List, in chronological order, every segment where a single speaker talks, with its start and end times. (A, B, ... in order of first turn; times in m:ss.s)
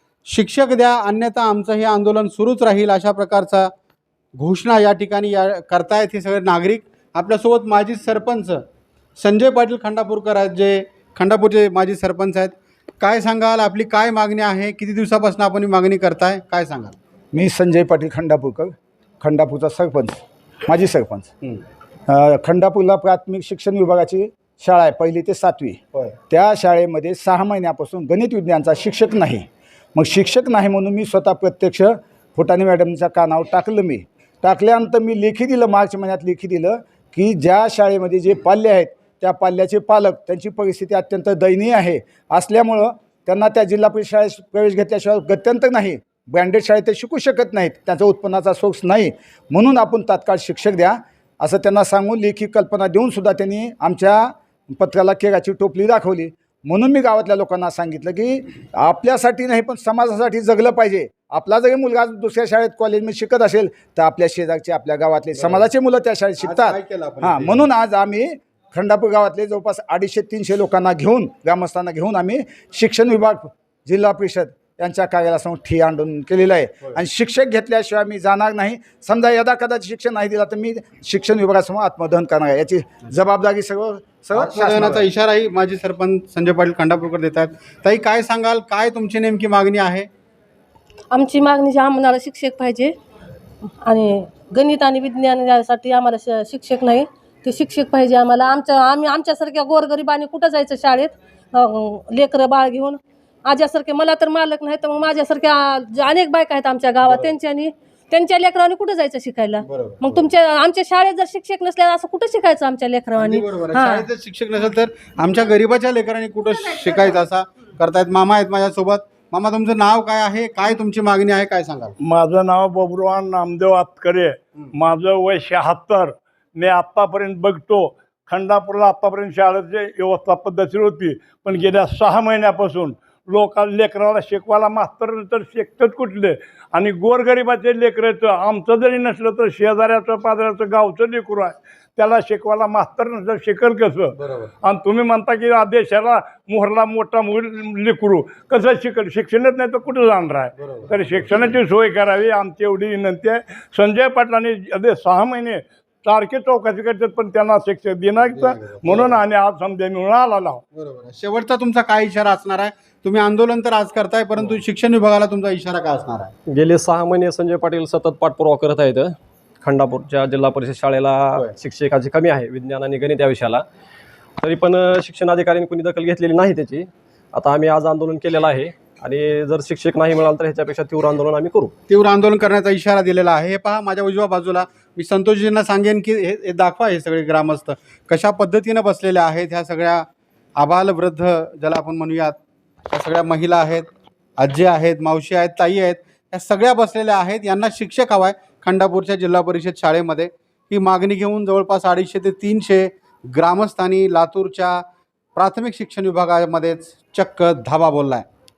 0:00.3-0:03.7 A
0:04.4-0:08.6 A
0:09.2-0:17.0 A
0:17.3-0:21.3 B
0:22.1-1:25.1 B
1:05.4-1:05.6 A
1:06.4-1:07.7 A
1:24.3-1:30.1 A
1:31.1-1:32.9 C
1:33.8-1:54.1 C
1:47.0-1:47.3 A
1:49.6-1:50.3 A
1:53.2-2:02.0 A
2:02.0-2:40.6 D
2:24.2-2:24.5 A
2:30.6-2:31.5 A
2:38.3-2:39.2 A
2:40.7-2:46.3 A
2:46.5-2:53.6 E
2:54.4-3:01.7 E
3:01.9-3:10.1 A
3:10.6-3:12.4 A
3:12.9-3:24.8 A
3:25.4-3:28.3 A